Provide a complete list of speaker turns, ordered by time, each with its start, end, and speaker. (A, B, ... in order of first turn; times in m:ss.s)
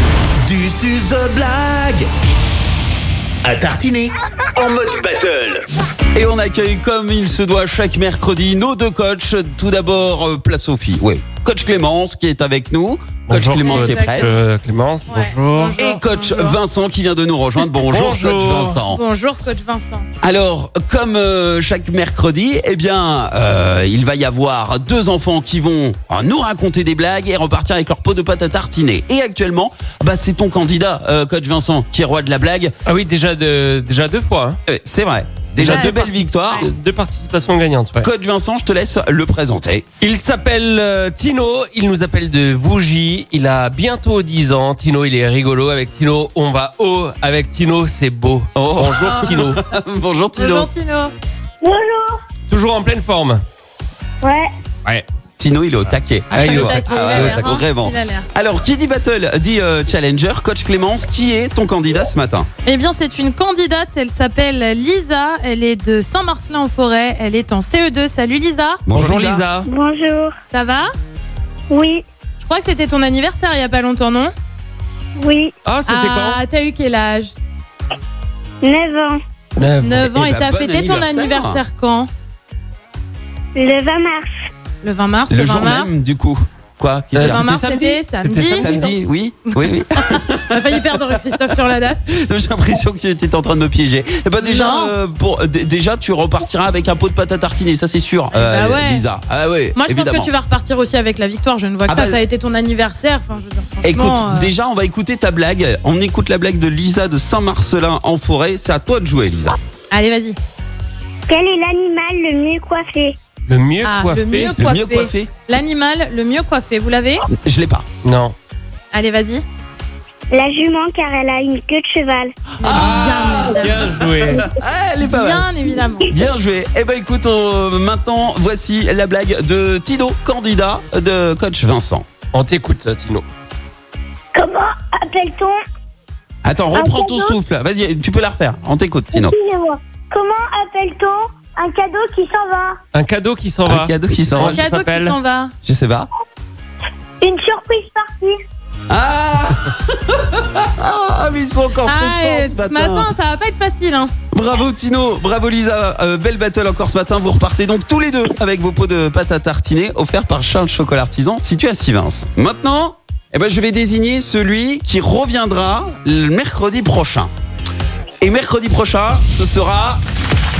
0:00.5-0:02.0 A
0:03.4-0:05.6 A
0:06.1-0:14.4 B
0:13.3-0:15.8 C
0:13.6-0:14.3 D
0:15.1-0:16.6 D
0:15.8-0:19.0 B
0:17.9-0:18.8 C
0:18.9-0:20.1 D
0:20.2-0:32.7 B
0:32.9-0:34.6 C
0:34.7-0:36.7 B
0:35.5-0:38.1 C
0:38.0-0:39.8 B
0:40.0-0:49.6 C
0:48.6-0:50.7 B
0:50.4-0:51.1 D
0:51.6-0:52.2 E
0:52.5-0:53.4 C
0:54.2-0:54.5 E
0:55.4-1:02.5 B
0:56.3-0:57.4 C
0:56.4-0:58.3 D
1:02.6-1:08.8 D
1:08.8-1:09.4 B
1:08.9-1:09.7 C
1:09.6-1:10.4 E
1:10.5-1:10.9 D
1:11.7-1:12.0 E
1:12.4-1:14.3 D
1:15.2-1:15.5 E
1:15.6-1:16.4 C
1:15.8-1:17.3 D
1:18.6-1:19.2 E
1:19.6-1:20.1 C
1:19.8-1:22.1 D
1:20.0-1:21.6 B
1:23.5-1:24.5 E
1:24.8-1:25.9 D
1:25.3-1:27.6 B
1:27.1-1:28.9 C
1:27.3-1:28.7 D
1:28.6-1:31.0 B
1:30.5-1:32.0 D
1:32.1-1:40.3 B
1:34.4-1:34.9 D
1:38.3-1:39.0 D
1:39.7-1:44.5 D
1:41.9-1:42.2 B
1:43.8-1:49.6 B
1:49.9-1:50.4 D
1:51.3-1:53.2 E
1:53.5-1:54.6 C
1:53.8-1:57.3 D
1:54.6-1:55.3 B
1:57.3-1:57.8 B
1:58.0-1:58.3 C
1:58.9-1:59.4 D
2:00.3-2:02.5 E
2:02.6-2:04.0 D
2:02.6-2:05.4 B
2:02.7-2:04.4 C
2:05.0-2:06.1 D
2:06.1-2:12.1 B
2:12.3-2:13.2 C
2:14.3-2:15.6 E
2:16.4-2:19.3 B
2:16.7-2:17.4 E
2:19.1-2:22.8 E
2:22.9-2:25.2 C
2:23.7-2:24.6 B
2:24.5-2:25.5 D
2:25.6-2:26.1 B
2:27.2-2:28.4 E
2:28.9-2:33.1 B
2:31.9-2:34.1 D
2:34.3-2:47.3 B
2:48.2-2:50.0 B